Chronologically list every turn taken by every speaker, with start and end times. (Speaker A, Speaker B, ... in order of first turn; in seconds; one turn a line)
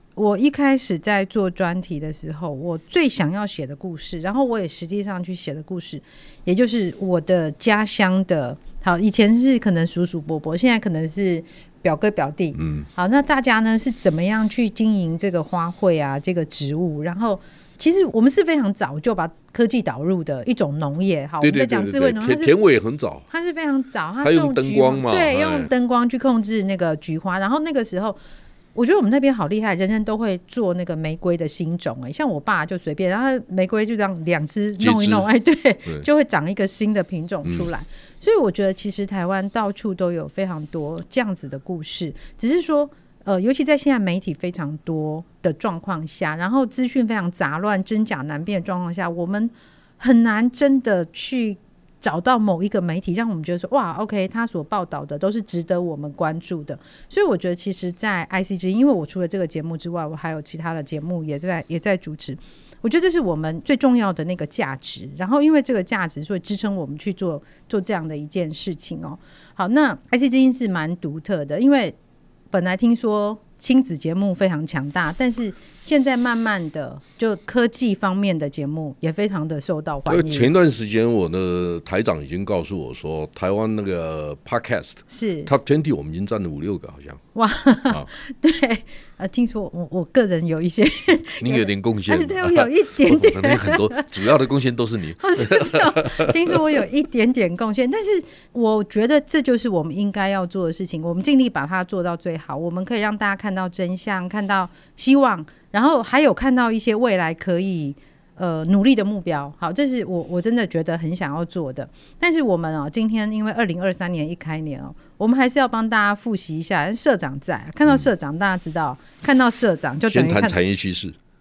Speaker A: 0.2-22.5
Speaker B: 12.6-12.9
Speaker B: 21.4-23.3
Speaker A: 23.3-28.2
Speaker B: 24.2-25.7
Speaker A: 28.8-72.0
Speaker B: 34.8-35.3
Speaker B: 37.4-37.7
Speaker A: 72.5-80.5
Speaker B: 80.1-87.2
Speaker A: 85.1-85.5
Speaker A: 87.3-94.1
Speaker B: 91.4-96.8
Speaker A: 95.2-120.6
Speaker B: 120.1-121.2